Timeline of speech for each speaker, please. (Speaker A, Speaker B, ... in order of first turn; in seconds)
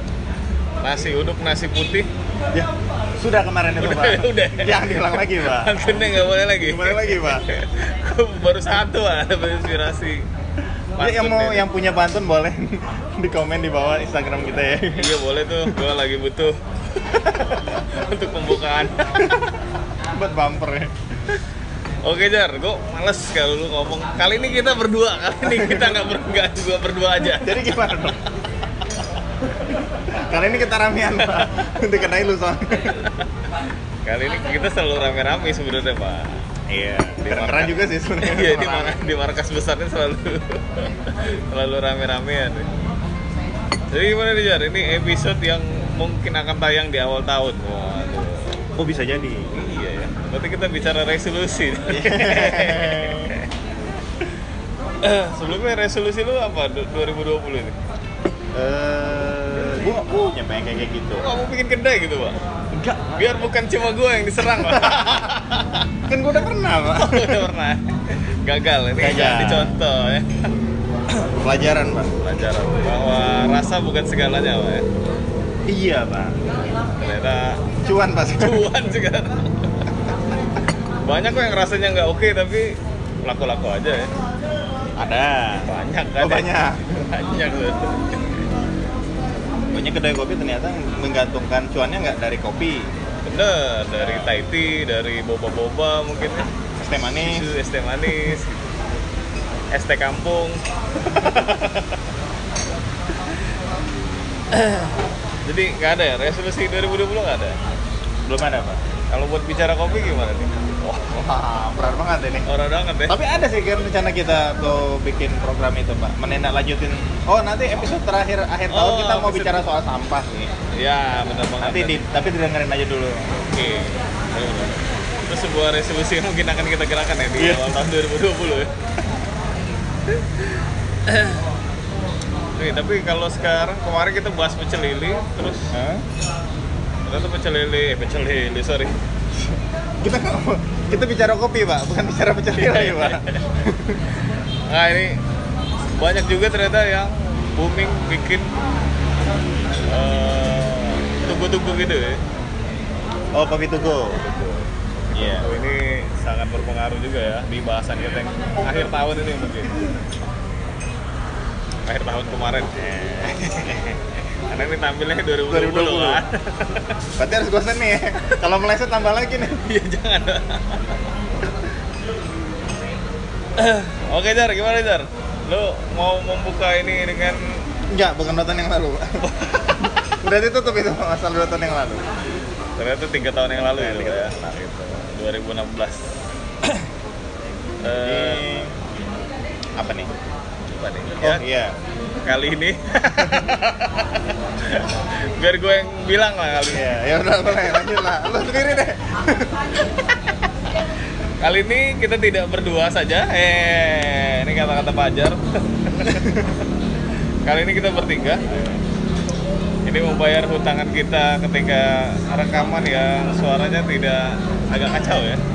Speaker A: 0.8-2.1, 3.8-10.2, 11.0-11.6, 14.9-16.6, 17.8-19.3, 22.0-27.9, 31.2-31.5, 34.0-36.4, 37.2-42.7, 43.9-48.6, 49.5-53.5, 55.0-57.8, 61.1-62.4, 63.1-65.9, 67.0-67.8, 68.4-70.5, 72.2-74.8, 76.9-77.6, 78.4-79.9, 81.0-84.1, 85.7-88.4, 93.2-96.5, 97.2-98.7, 99.7-102.0, 104.5-104.9, 105.4-107.5, 109.1-111.2, 112.5-113.2, 118.7-119.7, 120.7-122.0, 123.5-128.7, 131.1-131.4, 132.6-135.7, 137.1-138.9, 142.6-143.4, 144.7-145.2, 145.9-148.6, 149.8-152.2, 154.2-159.8, 161.8-167.0, 169.6-170.8, 173.6-177.6, 179.2-179.8, 182.8-186.0, 187.8-188.4, 190.7-191.4, 192.2-196.9, 201.4-206.3, 207.4-208.8, 209.8-215.4
Speaker B: 2.5-5.8, 6.6-7.6, 11.0-15.7, 17.1-17.7, 19.2-19.5, 20.1-20.9, 25.4-26.0, 27.3-28.2, 30.0-33.1, 36.7-39.0, 48.8-49.6, 51.9-53.3, 58.5-61.4, 62.7-63.0, 64.7-65.0, 66.0-67.5, 69.0-69.8, 71.1-72.1, 75.7-76.4, 77.8-78.7, 85.0-87.0, 89.7-92.9, 96.8-97.5, 108.2-108.8, 111.1-112.5, 113.1-120.5, 121.6-123.3, 127.4-127.6, 135.7-136.1, 140.0-144.0, 153.3-154.2, 155.1-155.5, 162.7-163.8, 165.5-166.2, 167.2-169.6, 177.9-179.2, 180.1-182.0, 183.7-184.7, 188.0-188.7, 189.8-190.1, 191.2-191.8, 193.2-193.5, 196.7-199.8, 206.0-206.6